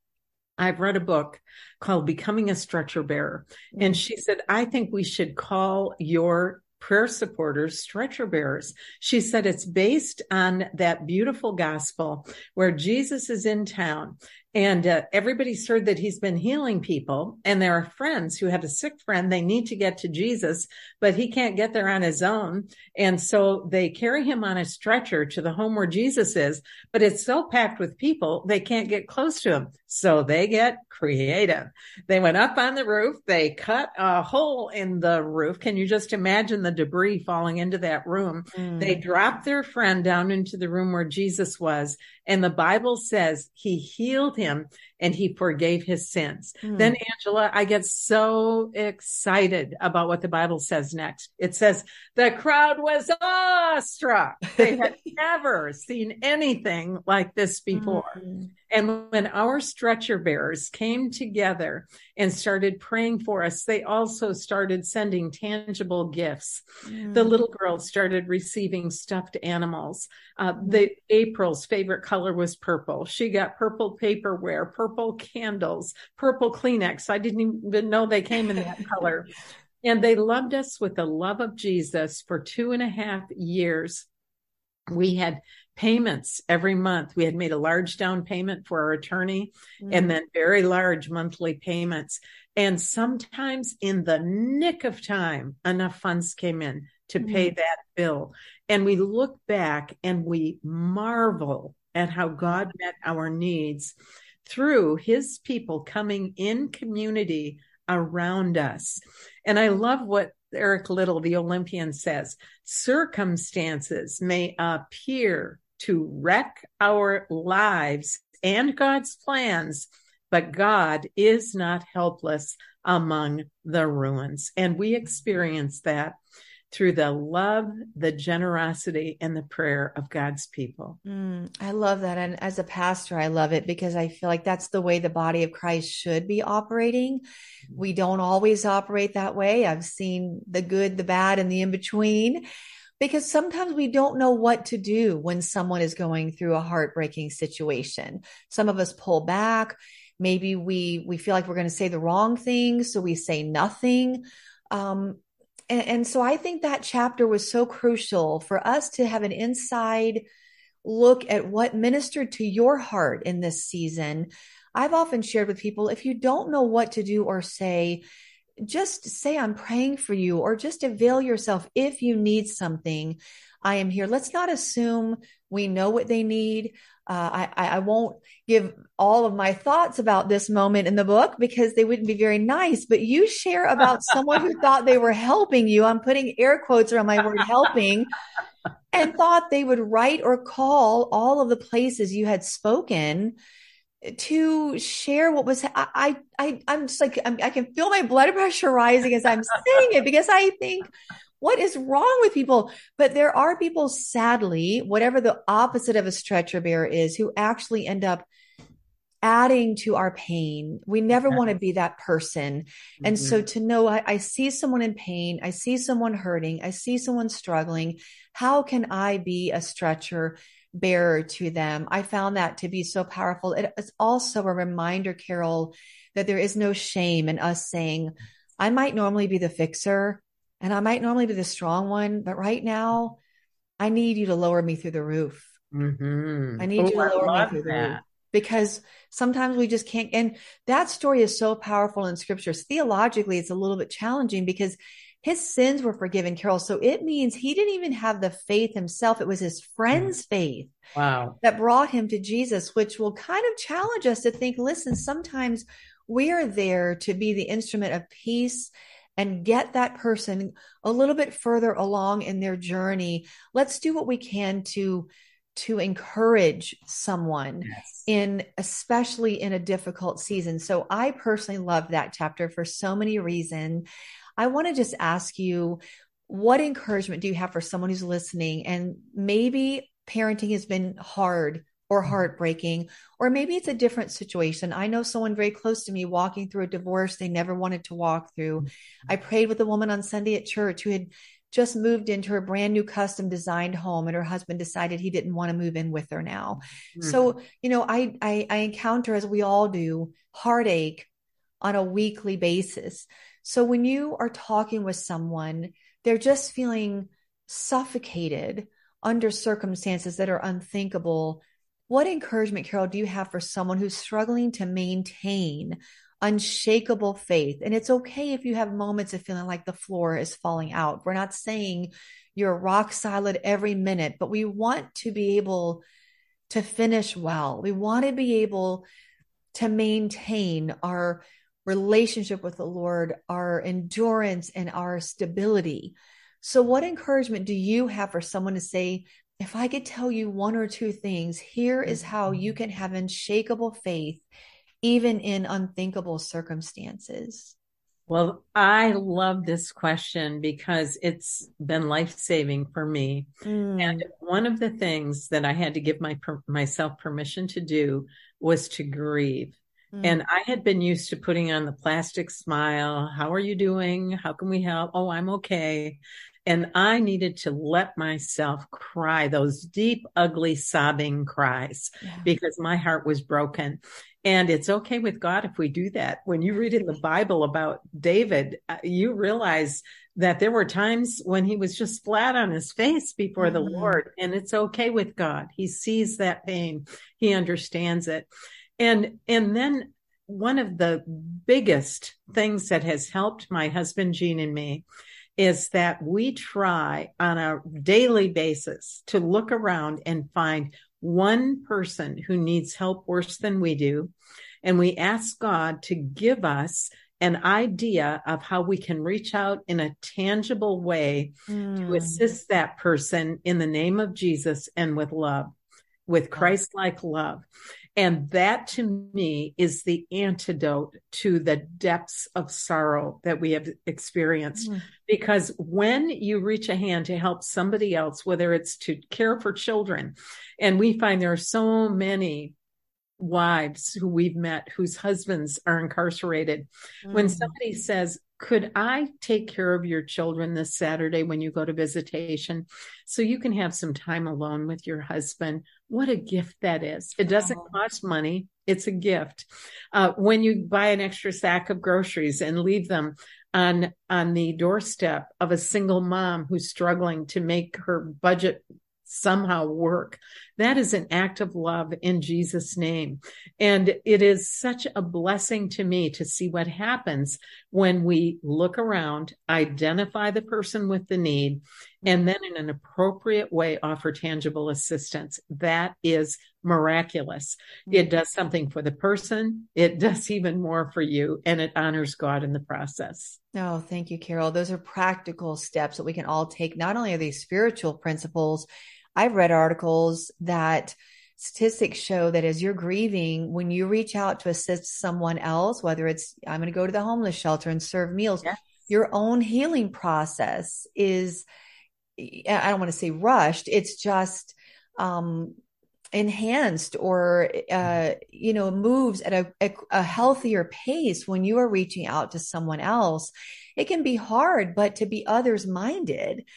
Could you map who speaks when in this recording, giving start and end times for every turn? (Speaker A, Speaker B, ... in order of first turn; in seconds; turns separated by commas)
Speaker A: 0.6-79.3, Speaker B: 38.5-39.0, Speaker B: 46.6-47.0, Speaker B: 57.8-58.5, Speaker B: 66.9-67.4, Speaker A: 79.8-84.1, Speaker A: 84.9-126.2, Speaker B: 89.8-90.1, Speaker B: 97.2-97.5, Speaker A: 126.7-131.0, Speaker B: 131.1-137.2, Speaker B: 137.8-142.4, Speaker B: 143.0-155.2, Speaker B: 155.7-160.2, Speaker B: 160.8-168.0, Speaker B: 168.6-188.1, Speaker B: 188.9-193.4, Speaker B: 194.0-200.9, Speaker B: 201.4-208.3, Speaker B: 209.2-233.2, Speaker A: 213.0-213.4, Speaker B: 233.8-235.5, Speaker A: 235.7-238.0, Speaker B: 236.6-250.8, Speaker A: 250.9-251.4, Speaker B: 251.4-273.9, Speaker A: 267.7-268.0, Speaker B: 274.4-301.1, Speaker A: 297.0-297.2, Speaker B: 301.6-325.8, Speaker B: 326.5-328.9, Speaker B: 329.5-344.3, Speaker B: 344.8-347.6, Speaker A: 348.1-394.8, Speaker B: 353.4-354.1, Speaker B: 359.9-360.2, Speaker B: 372.0-372.3, Speaker B: 383.4-384.0, Speaker A: 395.4-404.1, Speaker A: 404.6-415.5, Speaker B: 411.5-412.2, Speaker A: 416.1-417.4, Speaker A: 418.0-432.6, Speaker A: 433.2-483.4, Speaker B: 437.1-437.5, Speaker B: 447.4-447.7, Speaker B: 483.5-501.5, Speaker B: 502.2-505.6, Speaker B: 506.1-516.5